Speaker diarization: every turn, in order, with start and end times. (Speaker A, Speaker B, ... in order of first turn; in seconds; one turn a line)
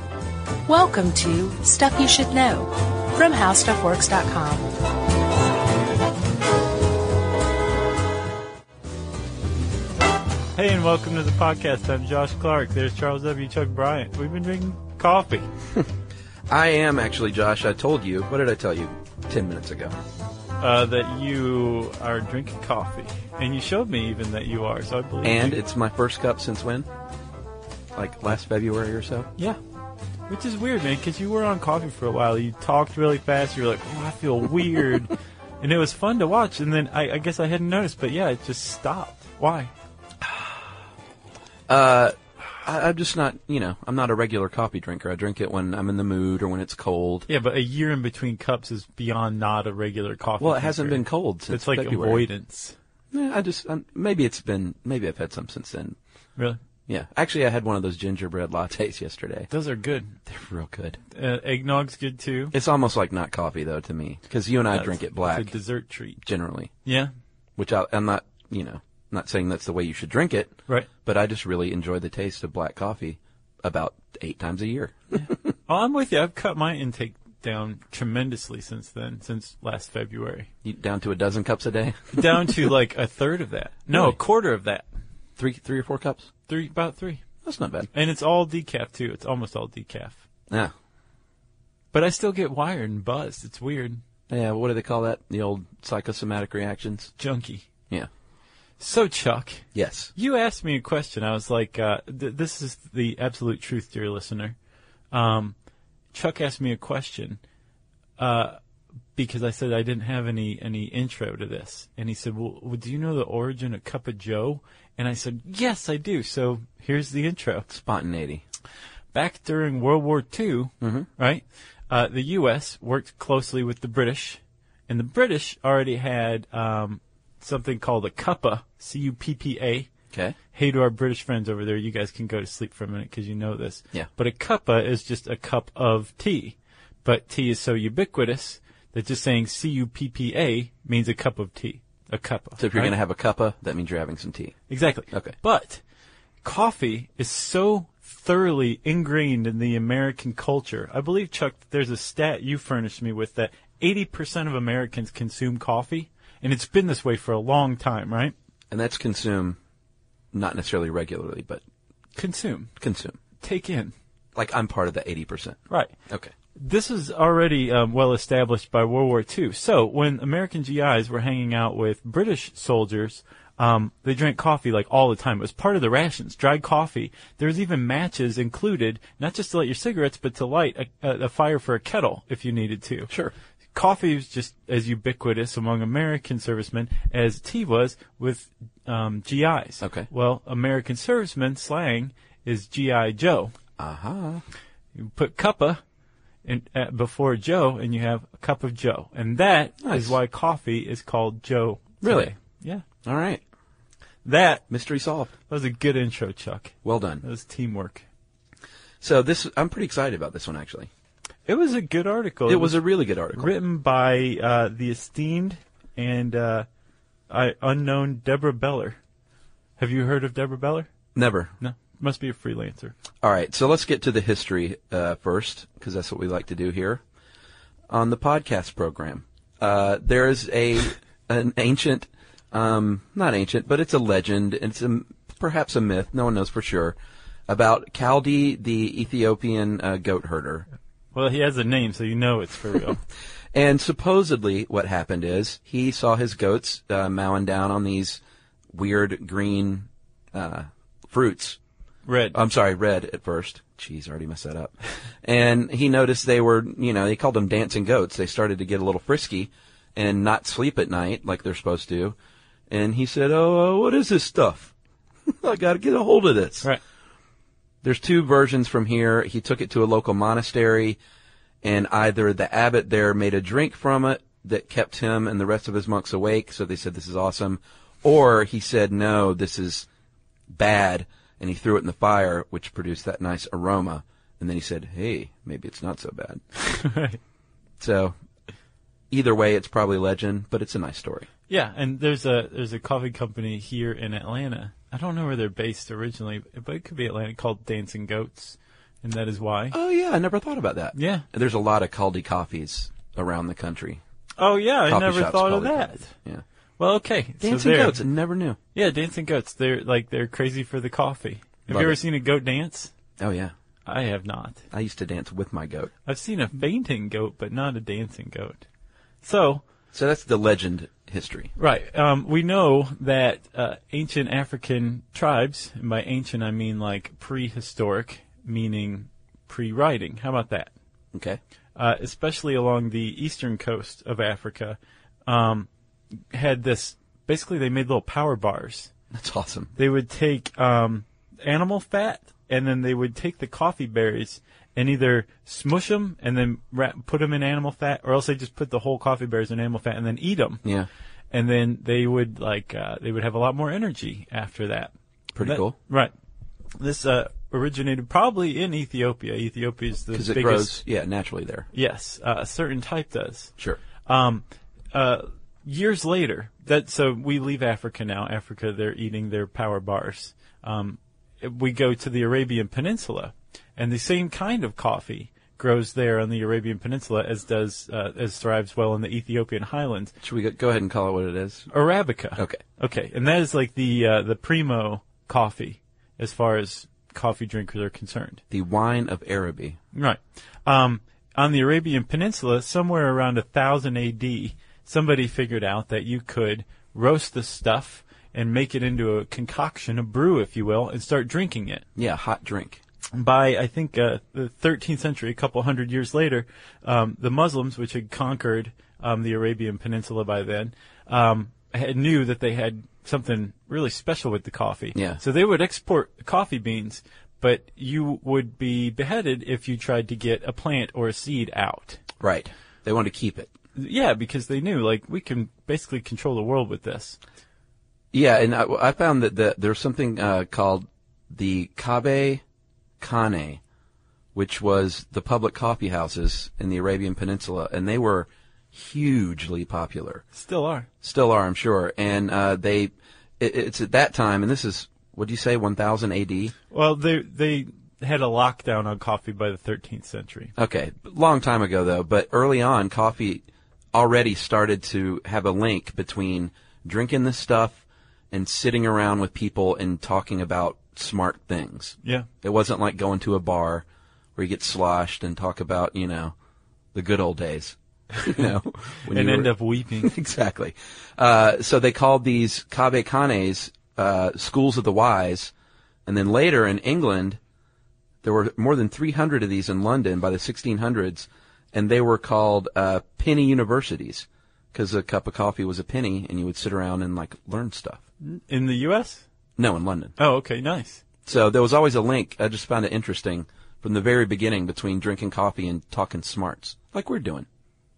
Speaker A: 0.7-4.7
Speaker B: 10.5-15.5
Speaker C: 16.5-19.9
Speaker B: 20.6-25.6
Speaker C: 25.2-26.9
Speaker C: 27.9-29.3
Speaker B: 30.3-39.7
Speaker C: 41.7-47.3
Speaker B: 47.3-52.7
Speaker C: 50.4-52.2
Speaker C: 53.1-56.0
Speaker C: 56.9-59.5
Speaker B: 59.5-60.2
Speaker C: 60.3-61.0
Speaker B: 61.1-62.5
Speaker C: 62.5-65.5
Speaker B: 64.7-66.2
Speaker C: 66.2-66.7
Speaker B: 66.8-67.1
Speaker C: 67.6-75.0
Speaker B: 75.1-80.5
Speaker C: 80.6-82.7
Speaker B: 82.1-84.8
Speaker C: 85.4-86.3
Speaker B: 86.5-87.2
Speaker C: 87.4-87.9
Speaker B: 87.9-90.2
Speaker B: 91.9-94.0
Speaker C: 94.3-97.1
Speaker B: 97.2-97.7
Speaker B: 98.8-104.5
Speaker C: 99.7-100.1
Speaker B: 105.1-105.5
Speaker B: 106.1-107.4
Speaker B: 108.2-108.6
Speaker B: 109.1-117.7
Speaker C: 117.7-118.4
Speaker B: 119.1-129.9
Speaker C: 120.8-121.1
Speaker B: 130.5-142.9
Speaker C: 142.6-144.5
Speaker B: 144.7-145.8
Speaker B: 146.4-158.3
Speaker C: 158.7-159.6
Speaker C: 160.3-161.6
Speaker B: 162.2-162.7
Speaker C: 162.8-163.2
Speaker B: 163.4-163.9
Speaker C: 164.3-166.3
Speaker B: 165.7-165.9
Speaker B: 166.5-183.1
Speaker C: 183.1-183.3
Speaker B: 183.7-193.5
Speaker C: 189.8-190.1
Speaker C: 193.8-194.4
Speaker B: 194.9-195.8
Speaker B: 196.4-202.8
Speaker C: 199.8-200.2
Speaker C: 202.0-202.3
Speaker C: 203.0-203.4
Speaker B: 204.2-204.6
Speaker C: 204.7-205.3
Speaker B: 205.5-208.0
Speaker C: 206.8-207.2
Speaker C: 209.0-210.9
Speaker B: 211.5-212.8
Speaker C: 212.5-213.5
Speaker B: 213.3-216.7
Speaker B: 217.3-219.0
Speaker B: 219.8-220.9
Speaker C: 221.1-221.5
Speaker B: 221.6-222.9
Speaker C: 223.2-227.0
Speaker C: 227.9-236.9
Speaker C: 237.5-240.7
Speaker B: 241.1-243.0
Speaker C: 243.5-248.2
Speaker C: 248.7-251.6
Speaker B: 252.1-252.4
Speaker C: 252.3-262.1
Speaker C: 262.7-264.7
Speaker C: 265.3-266.7
Speaker C: 267.8-271.0
Speaker C: 271.6-279.9
Speaker C: 280.5-286.4
Speaker B: 286.6-287.2
Speaker C: 287.8-288.1
Speaker C: 289.1-291.3
Speaker B: 291.5-299.8
Speaker C: 299.7-304.0
Speaker B: 300.9-301.2
Speaker B: 304.4-306.1
Speaker C: 304.9-306.4
Speaker B: 306.8-308.0
Speaker C: 307.4-308.6
Speaker B: 308.7-312.9
Speaker C: 311.7-312.0
Speaker C: 313.2-313.5
Speaker B: 313.9-314.6
Speaker C: 314.7-315.9
Speaker B: 316.0-318.6
Speaker B: 319.2-319.6
Speaker C: 319.9-321.5
Speaker B: 321.6-330.7
Speaker C: 331.1-331.4
Speaker B: 331.8-335.7
Speaker B: 336.3-338.9
Speaker C: 339.1-339.7
Speaker B: 339.8-350.6
Speaker B: 351.3-356.1
Speaker C: 355.3-355.7
Speaker B: 356.8-360.8
Speaker C: 360.1-361.7
Speaker B: 361.7-363.5
Speaker B: 364.1-380.1
Speaker C: 380.2-381.7
Speaker B: 381.7-388.4
Speaker C: 382.4-382.6
Speaker C: 388.5-389.8
Speaker B: 389.9-401.8
Speaker C: 401.9-402.8
Speaker B: 403.1-422.0
Speaker C: 414.9-415.2
Speaker C: 422.2-423.5
Speaker B: 423.8-427.2
Speaker C: 428.1-432.4
Speaker C: 433.0-433.6
Speaker C: 434.3-440.2
Speaker B: 440.3-440.9
Speaker C: 441.0-446.5
Speaker B: 446.7-450.5
Speaker C: 450.6-463.8
Speaker C: 464.4-466.3
Speaker C: 466.9-475.5
Speaker B: 469.1-470.1
Speaker C: 476.1-477.4
Speaker C: 478.2-488.0
Speaker B: 488.2-489.2
Speaker C: 489.6-490.1
Speaker B: 490.2-491.0
Speaker C: 491.2-497.4